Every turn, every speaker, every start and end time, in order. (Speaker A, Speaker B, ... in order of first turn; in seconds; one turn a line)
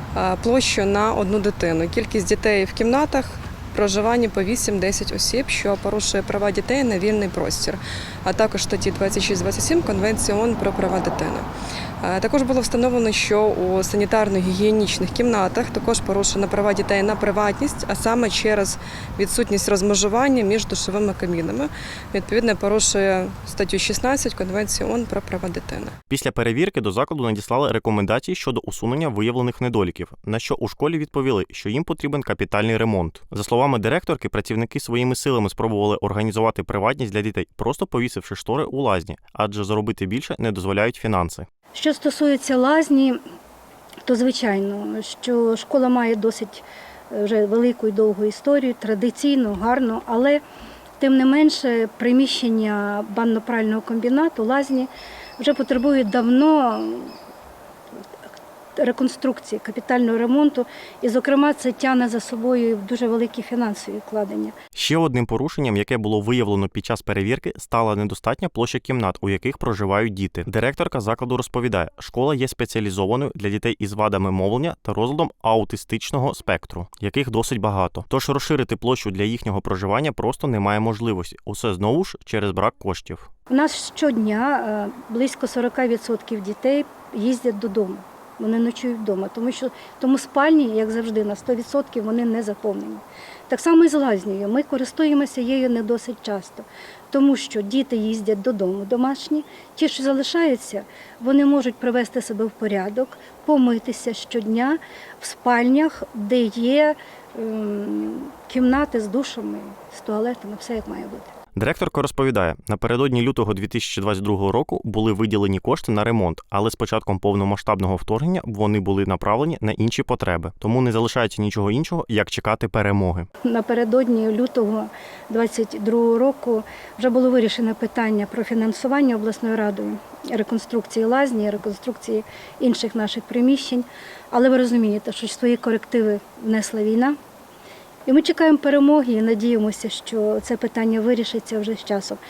Speaker A: 0.1-11.5
Speaker A: 12.0-25.9
Speaker B: 26.1-41.5
Speaker C: 41.7-43.2
Speaker C: 44.0-50.4
Speaker C: 51.0-57.1
Speaker C: 58.8-64.5
Speaker B: 64.7-83.3
Speaker C: 83.5-111.3
Speaker B: 111.5-123.3
Speaker C: 123.4-137.2
Speaker C: 138.1-142.2